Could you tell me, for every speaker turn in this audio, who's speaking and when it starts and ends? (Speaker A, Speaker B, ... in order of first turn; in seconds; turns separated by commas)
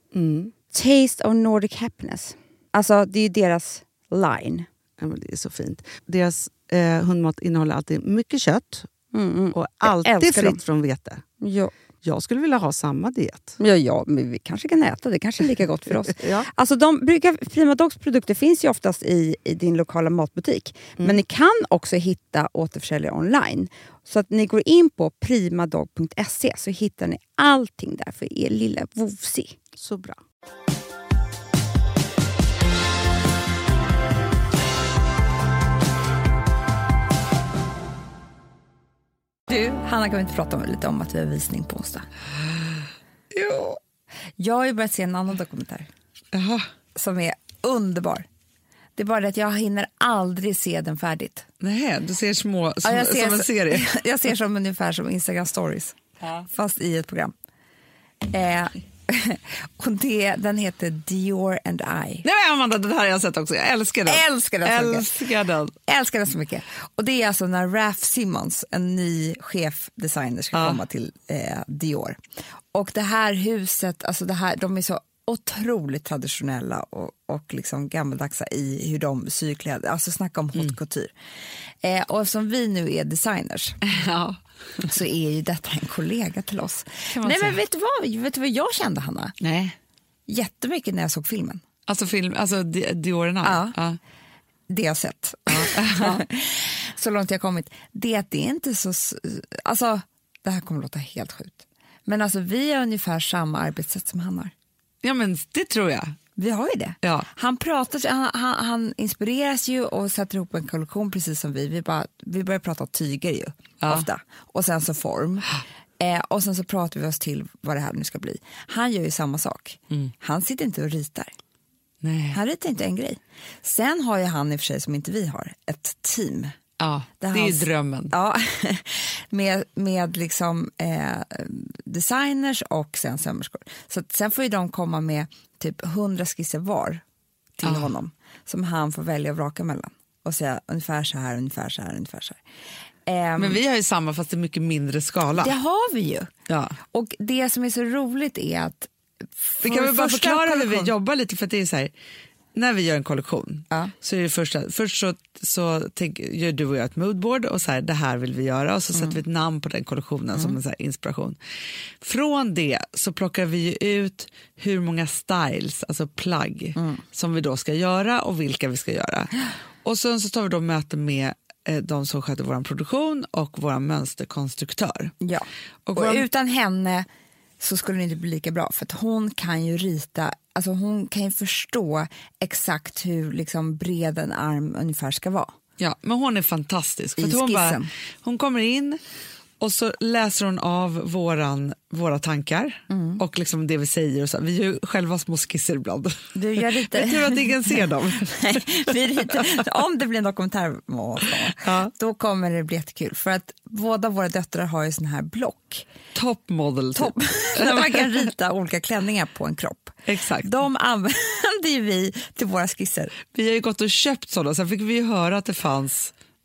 Speaker A: 0.1-0.5, Speaker B: 0.7-4.7, Speaker A: 5.0-8.9, Speaker B: 9.1-10.6, Speaker A: 9.5-11.2, Speaker B: 11.4-11.7, Speaker A: 12.0-13.6, Speaker B: 13.6-29.6, Speaker A: 16.1-16.5, Speaker A: 29.8-30.2, Speaker C: 39.5-42.1, Speaker D: 43.3-43.8, Speaker C: 44.4-45.9, Speaker D: 46.3-46.6, Speaker C: 46.9-48.3, Speaker C: 49.0-51.5, Speaker D: 51.6-53.9, Speaker C: 52.8-57.3, Speaker C: 58.2-62.2, Speaker D: 62.2-65.7, Speaker C: 64.0-65.1, Speaker C: 65.9-72.2, Speaker D: 70.5-70.8, Speaker C: 72.7-81.1, Speaker C: 81.8-83.8, Speaker D: 83.8-84.4, Speaker C: 84.8-89.3, Speaker D: 87.1-87.6, Speaker D: 89.4-89.8, Speaker C: 90.3-91.6, Speaker D: 91.9-94.0, Speaker C: 93.4-93.8, Speaker C: 94.7-104.5, Speaker D: 95.5-96.2, Speaker D: 105.0-106.2, Speaker C: 106.3-121.3, Speaker D: 107.0-107.3, Speaker D: 113.8-114.1, Speaker D: 122.0-122.4, Speaker C: 122.3-126.5, Speaker D: 126.8-128.1, Speaker C: 127.2-137.0, Speaker C: 137.6-142.4, Speaker D: 137.6-137.9, Speaker C: 143.1-143.6, Speaker D: 143.4-145.5, Speaker C: 145.3-150.9, Speaker D: 146.5-146.8, Speaker D: 149.6-151.9, Speaker D: 152.5-161.4, Speaker D: 162.0-175.1, Speaker C: 166.8-167.0, Speaker C: 175.2-177.1, Speaker D: 175.8-176.2, Speaker C: 177.6-185.5, Speaker D: 185.8-189.0, Speaker C: 187.2-187.9, Speaker D: 189.6-199.5, Speaker C: 192.9-193.2, Speaker C: 196.3-205.9, Speaker D: 201.5-201.9, Speaker D: 206.1-208.0, Speaker C: 206.9-213.1, Speaker D: 210.1-210.5, Speaker D: 213.3-216.1